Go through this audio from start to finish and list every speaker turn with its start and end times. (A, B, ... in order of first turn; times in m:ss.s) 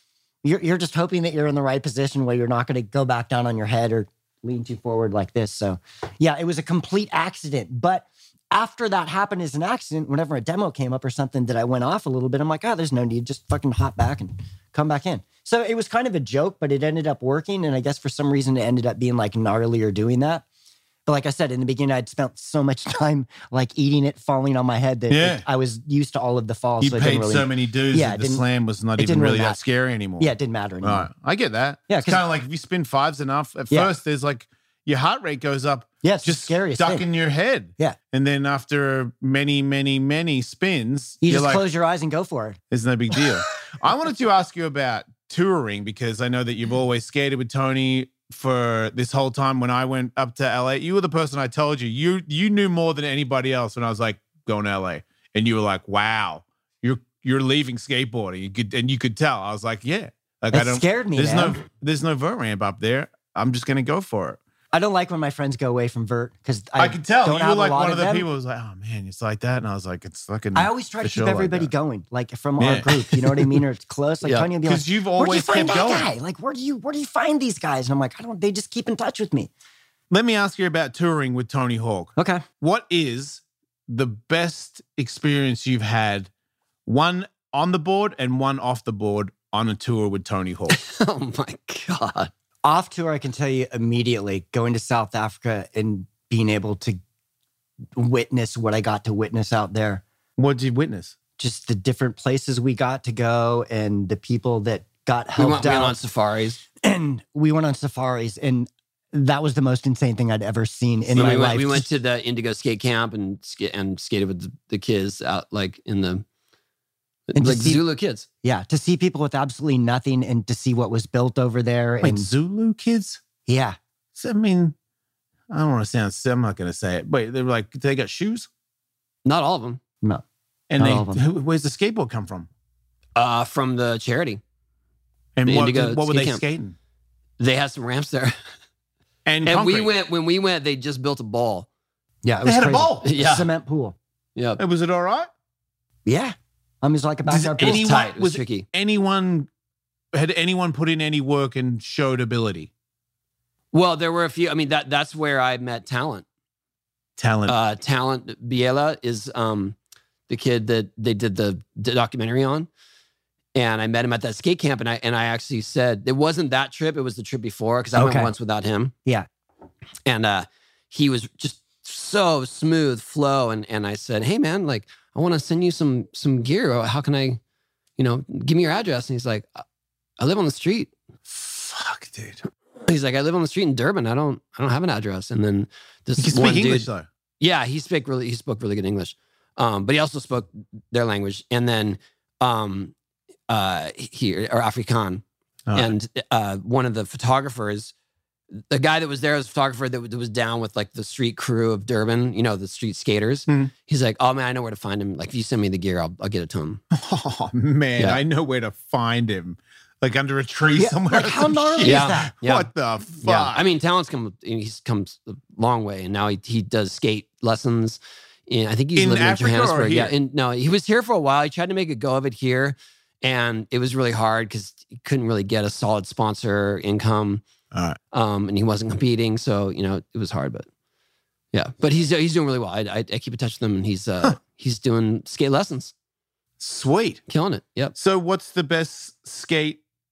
0:00.4-0:20.4 A
0:21.0-0:28.4 A
0:25.1-0:25.4 B
0:26.8-0:30.3 B
0:29.0-0:29.6 A
0:30.2-0:31.1 A
0:30.8-0:41.6 B
0:31.9-0:32.2 A
0:36.0-0:37.0 A
0:41.2-0:42.6 A
0:42.7-1:04.4 B
1:00.5-1:01.6 A
1:04.7-1:08.3 A
1:06.8-1:11.7 B
1:10.5-1:19.5 A
1:12.6-1:13.6 B
1:14.6-1:16.1 B
1:20.1-1:26.3 B
1:22.2-1:22.4 A
1:26.9-1:30.8 B
1:30.7-1:32.3 C
1:32.6-1:37.0 A
1:38.0-1:40.0 A
1:40.4-1:41.1 B
1:41.4-1:46.0 A
1:45.4-1:46.6 C
1:46.8-1:51.9 A
1:51.1-1:56.2 C
1:57.3-1:58.2 C
1:57.4-1:57.8 A
1:58.4-2:02.3 A
2:02.0-2:03.2 B
2:03.4-2:03.8 A
2:04.2-2:04.7 B
2:05.5-2:08.5 B
2:09.2-2:09.8 C
2:10.7-2:12.5 B
2:10.8-2:11.2 A
2:13.2-2:14.4 C
2:15.4-2:16.7 B
2:15.4-2:16.4 C
2:17.4-2:18.4 C
2:19.2-2:19.9 B
2:19.4-2:21.7 C
2:22.2-2:24.0 A
2:22.4-2:23.1 B
2:23.0-2:23.5 C
2:24.6-2:25.3 B
2:26.0-2:27.8 A
2:27.3-2:29.5 B
2:27.6-2:28.6 C
2:30.1-2:32.7 B
2:33.7-2:36.2 C
2:37.2-2:37.6 B
2:37.5-2:39.8 C
2:40.3-2:42.7 C
2:43.5-2:48.9 C
2:47.9-2:48.3 A
2:50.0-2:57.4 C
2:58.0-2:59.6 C
3:00.2-3:00.9 C
3:01.3-3:02.4 B
3:02.9-3:06.9 C
3:06.2-3:07.0 B
3:07.4-3:12.9 C
3:13.5-3:15.2 C
3:15.7-3:15.9 B
3:15.7-3:17.9 C
3:18.7-3:26.8 C
3:26.9-3:33.6 B
3:30.8-3:32.3 A
3:31.8-3:32.7 C
3:33.2-3:47.4 C
3:39.0-3:40.1 B
3:47.7-3:48.0 B
3:48.1-3:50.7 C
3:51.5-3:55.9 C
3:56.6-3:57.3 B
3:57.3-3:57.9 C
3:57.9-3:59.8 B